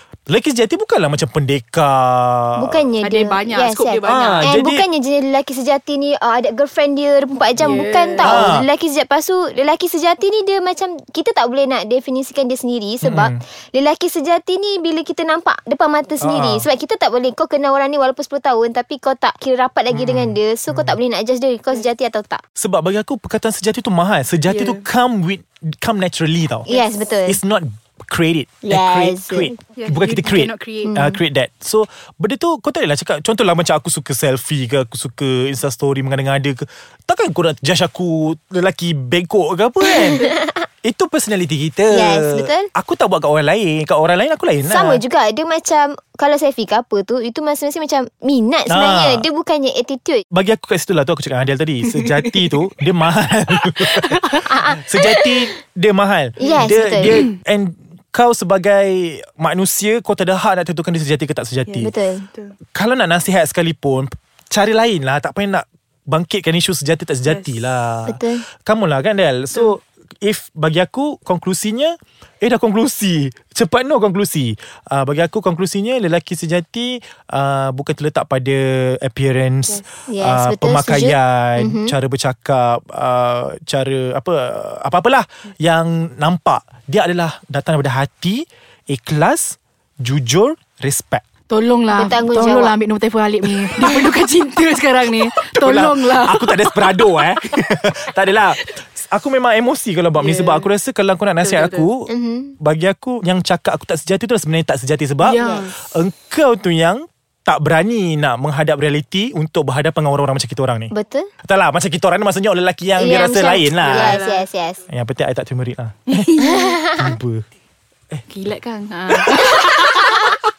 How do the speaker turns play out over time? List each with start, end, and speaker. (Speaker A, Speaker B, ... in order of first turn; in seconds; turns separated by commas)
Speaker A: 0.3-2.9, Speaker B: 2.6-22.4, Speaker C: 3.0-4.5, Speaker A: 4.0-4.8, Speaker C: 7.6-8.5, Speaker A: 8.2-8.7, Speaker A: 13.0-13.4, Speaker A: 16.2-16.7, Speaker A: 19.9-21.0, Speaker A: 22.6-26.7, Speaker C: 24.5-24.9, Speaker B: 26.7-27.4, Speaker C: 26.7-27.0, Speaker A: 27.3-40.3, Speaker B: 28.6-29.5, Speaker C: 29.8-30.9, Speaker B: 30.9-31.2, Speaker B: 39.8-40.7, Speaker A: 40.8-45.0, Speaker B: 41.9-42.7, Speaker B: 44.7-50.2, Speaker A: 48.7-49.3, Speaker A: 50.3-61.9, Speaker C: 51.9-52.5, Speaker C: 53.8-55.1, Speaker B: 54.5-54.8, Speaker B: 56.4-57.3, Speaker C: 56.4-57.3, Speaker C: 61.7-62.6, Speaker B: 61.8-62.3, Speaker A: 62.8-91.2, Speaker C: 67.3-67.8, Speaker B: 68.1-68.4, Speaker B: 80.1-82.0, Speaker C: 91.5-97.4, Speaker B: 91.9-92.8, Speaker A: 95.3-110.9, Speaker C: 100.2-100.7, Speaker C: 101.4-101.9, Speaker B: 102.1-102.5, Speaker C: 105.2-105.8, Speaker B: 105.4-105.7, Speaker B: 110.9-111.3, Speaker A: 111.4-114.2, Speaker B: 113.0-114.8, Speaker C: 113.8-114.5, Speaker A: 114.9-116.4, Speaker C: 116.1-116.8, Speaker B: 116.4-117.2, Speaker A: 117.0-117.4, Speaker C: 118.3-120.3, Speaker A: 119.1-120.3